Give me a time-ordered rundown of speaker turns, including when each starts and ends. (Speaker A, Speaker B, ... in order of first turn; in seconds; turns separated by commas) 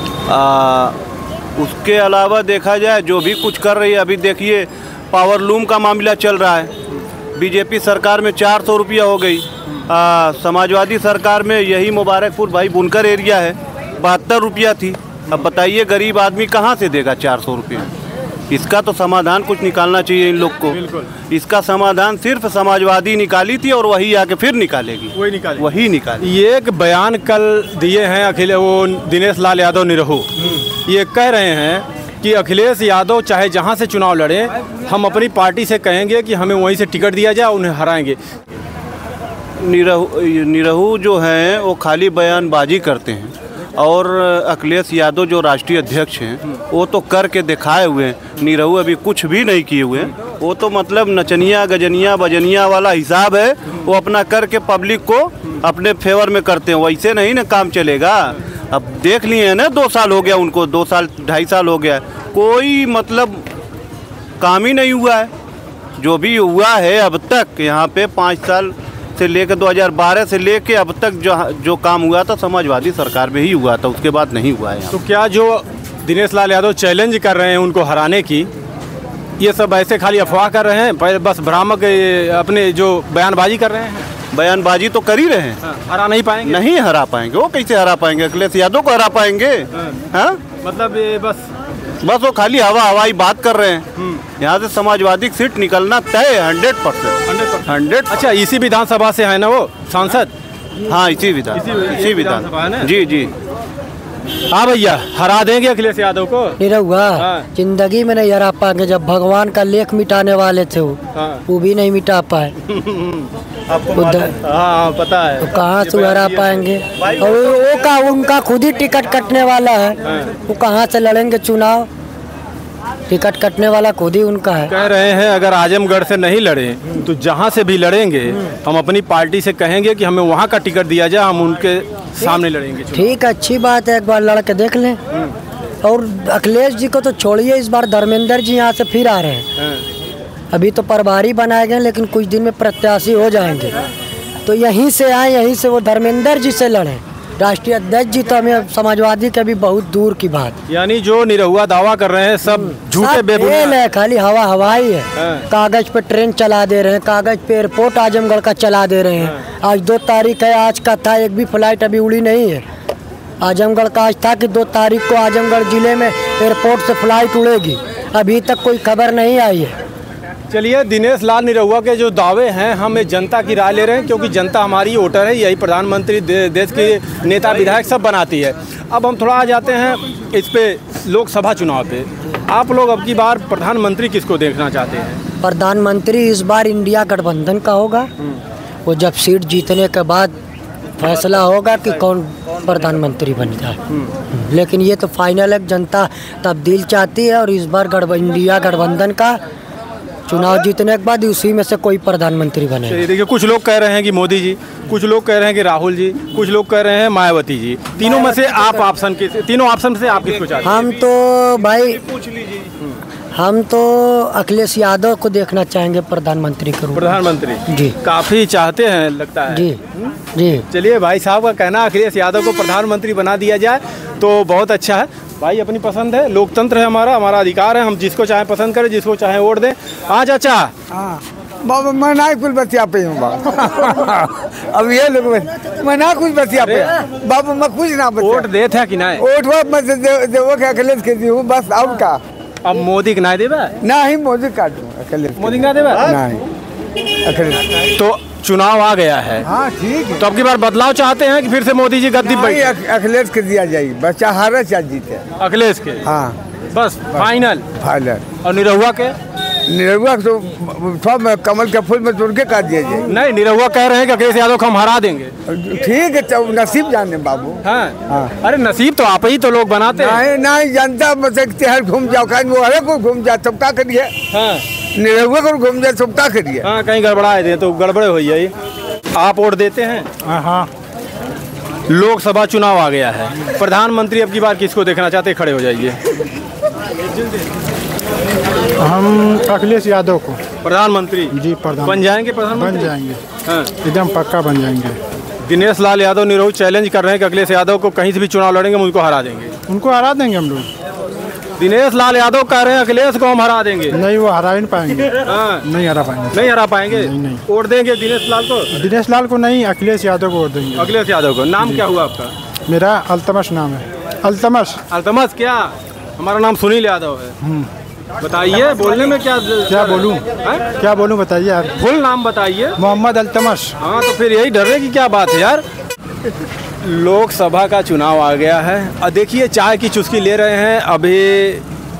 Speaker A: 0.3-1.0, Speaker A: 1.6-6.7, Speaker A: 7.3-17.9, Speaker A: 18.5-26.2, Speaker B: 20.7-21.1, Speaker B: 25.1-25.6, Speaker B: 26.2-38.2, Speaker A: 39.6-63.4, Speaker A: 64.4-65.3, Speaker A: 66.0-75.0, Speaker B: 74.9-78.5, Speaker B: 79.4-84.1, Speaker A: 84.3-85.6, Speaker B: 85.6-86.6, Speaker A: 86.4-90.4, Speaker B: 90.6-91.5, Speaker A: 92.0-93.9, Speaker A: 94.4-98.2, Speaker B: 97.3-100.3, Speaker A: 100.9-103.3, Speaker B: 101.5-102.9, Speaker B: 104.5-106.6, Speaker C: 106.6-112.5, Speaker B: 107.2-107.5, Speaker B: 111.1-111.4, Speaker B: 112.7-117.3, Speaker C: 113.9-114.3, Speaker C: 115.4-121.9, Speaker B: 120.0-120.3, Speaker C: 123.1-124.7, Speaker B: 124.7-133.2, Speaker C: 132.9-135.0, Speaker C: 135.8-139.5, Speaker B: 139.6-139.8, Speaker C: 140.5-143.8, Speaker C: 144.4-150.5, Speaker B: 150.7-153.8, Speaker C: 152.6-162.6, Speaker B: 155.2-155.4, Speaker C: 163.4-169.8, Speaker B: 170.5-185.2, Speaker C: 185.4-188.1, Speaker C: 188.8-190.3, Speaker C: 191.0-193.8, Speaker C: 194.3-199.4, Speaker C: 200.3-203.0, Speaker B: 202.8-210.8, Speaker C: 208.1-208.5, Speaker A: 210.5-210.9, Speaker C: 210.6-212.0, Speaker A: 211.6-212.7, Speaker C: 213.3-217.9, Speaker B: 216.9-220.1, Speaker C: 219.5-219.8, Speaker C: 220.3-220.6, Speaker B: 220.7-230.7, Speaker D: 230.9-238.5, Speaker B: 236.6-236.9, Speaker B: 238.2-239.2, Speaker D: 239.2-242.2, Speaker B: 242.6-243.7, Speaker D: 243.8-246.4, Speaker B: 245.4-246.0, Speaker D: 247.2-247.7, Speaker B: 247.9-249.4, Speaker D: 249.5-250.2, Speaker B: 250.2-252.7, Speaker D: 252.2-255.2, Speaker B: 255.4-256.0, Speaker D: 256.0-256.4, Speaker B: 256.7-257.6, Speaker D: 257.8-258.2, Speaker B: 258.4-259.1, Speaker D: 259.7-263.0, Speaker B: 263.1-265.3, Speaker D: 265.5-268.3, Speaker B: 267.6-270.2, Speaker D: 269.9-274.1, Speaker B: 274.3-274.6, Speaker D: 274.9-276.6, Speaker B: 276.6-278.5, Speaker B: 279.1-280.1, Speaker E: 280.2-280.7, Speaker B: 281.9-286.0, Speaker E: 288.8-290.4, Speaker B: 290.6-292.9, Speaker E: 291.3-293.2, Speaker B: 293.4-293.7, Speaker E: 293.8-295.0, Speaker B: 295.4-299.5, Speaker E: 299.7-300.7, Speaker B: 301.6-304.0, Speaker E: 303.9-307.4, Speaker B: 305.2-305.7, Speaker B: 306.3-308.7, Speaker E: 308.7-310.9, Speaker B: 310.7-312.3, Speaker E: 312.7-314.8, Speaker B: 314.9-317.4, Speaker E: 317.4-317.7, Speaker B: 318.2-320.6, Speaker E: 319.7-320.2, Speaker E: 320.8-321.7, Speaker B: 321.8-322.8, Speaker E: 322.8-323.7, Speaker B: 323.8-325.6, Speaker B: 326.8-331.6